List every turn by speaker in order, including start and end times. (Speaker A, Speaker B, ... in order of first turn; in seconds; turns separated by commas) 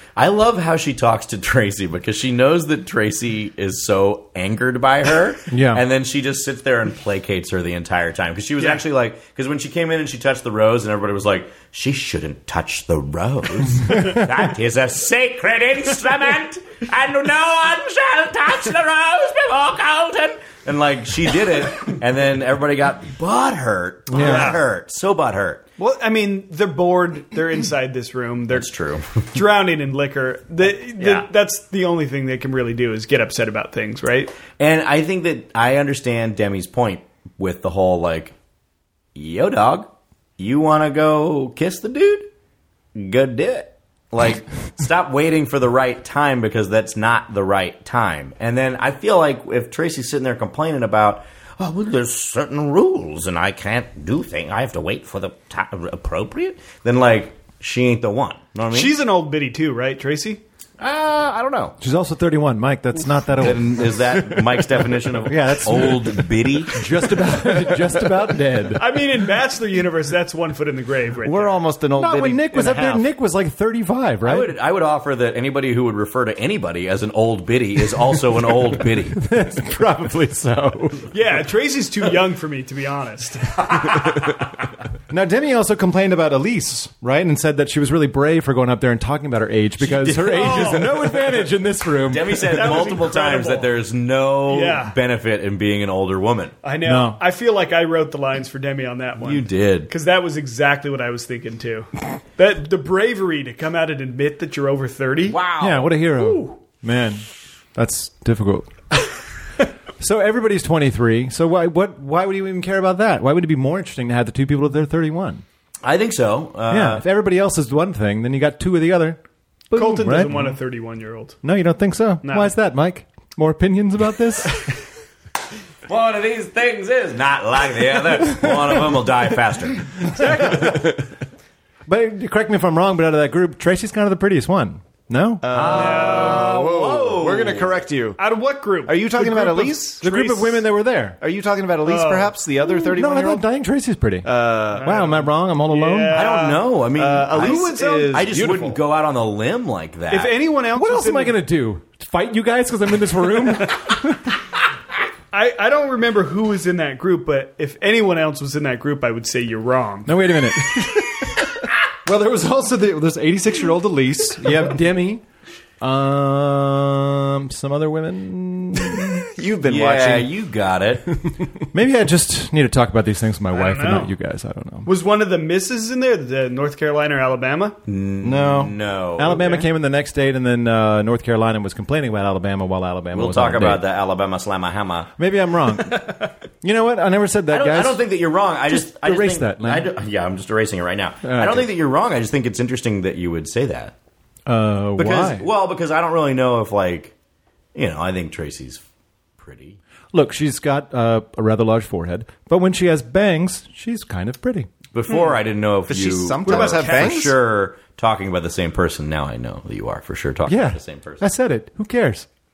Speaker A: 0.1-25.6, Speaker B: 5.5-5.8, Speaker B: 24.1-24.4, Speaker C: 24.2-24.6, Speaker C: 25.8-28.7, Speaker A: 28.5-29.3, Speaker C: 29.2-34.3, Speaker A: 31.0-31.2, Speaker A: 34.6-38.3, Speaker A: 39.1-42.3, Speaker A: 42.9-59.0, Speaker C: 58.7-60.4, Speaker A: 60.8-61.8, Speaker B: 61.8-69.0, Speaker A: 63.4-66.9, Speaker C: 68.7-71.6, Speaker D: 71.2-73.0, Speaker B: 71.9-74.5, Speaker A: 74.2-79.2, Speaker B: 79.1-81.1, Speaker C: 81.1-83.6, Speaker A: 83.8-84.1, Speaker B: 85.1-92.7, Speaker A: 89.8-91.0, Speaker C: 90.3-90.9, Speaker A: 92.1-96.6, Speaker C: 92.5-93.7, Speaker C: 94.5-94.9, Speaker C: 96.6-105.4, Speaker B: 96.8-97.2, Speaker A: 99.2-99.9, Speaker A: 105.2-105.9, Speaker B: 105.6-108.7, Speaker B: 110.0-115.4, Speaker A: 115.8-117.0, Speaker B: 116.7-120.6, Speaker C: 119.7-121.4, Speaker B: 121.4-124.6, Speaker C: 122.2-122.5, Speaker A: 125.8-130.2, Speaker B: 130.0-131.0, Speaker B: 131.8-135.4, Speaker D: 135.4-138.2, Speaker A: 135.5-137.8, Speaker C: 135.7-136.5, Speaker C: 138.2-140.6, Speaker D: 138.8-140.0, Speaker B: 140.0-141.2, Speaker D: 141.2-143.5, Speaker C: 141.8-142.3, Speaker B: 142.7-146.3, Speaker D: 144.2-144.9, Speaker C: 144.7-146.7, Speaker A: 146.1-150.4, Speaker D: 146.9-148.8, Speaker C: 147.3-148.2, Speaker C: 150.1-151.4, Speaker B: 150.7-154.4, Speaker C: 155.3-160.2, Speaker B: 160.1-165.2, Speaker B: 165.8-169.3, Speaker D: 169.2-170.3, Speaker A: 169.6-171.1, Speaker B: 171.7-174.9, Speaker C: 173.5-174.1, Speaker C: 174.8-177.8, Speaker A: 177.9-179.5, Speaker B: 178.2-183.8, Speaker C: 179.3-179.6, Speaker A: 183.1-185.1, Speaker B: 185.2-186.1, Speaker B: 186.6-188.0, Speaker A: 187.5-193.9, Speaker B: 188.7-189.9, Speaker B: 191.2-191.7, Speaker B: 194.5-195.4, Speaker A: 195.0-197.1, Speaker A: 197.7-198.8, Speaker A: 199.4-199.8, Speaker B: 200.1-204.7, Speaker A: 204.9-211.2, Speaker D: 205.9-207.3, Speaker C: 206.4-207.2, Speaker B: 210.5-212.3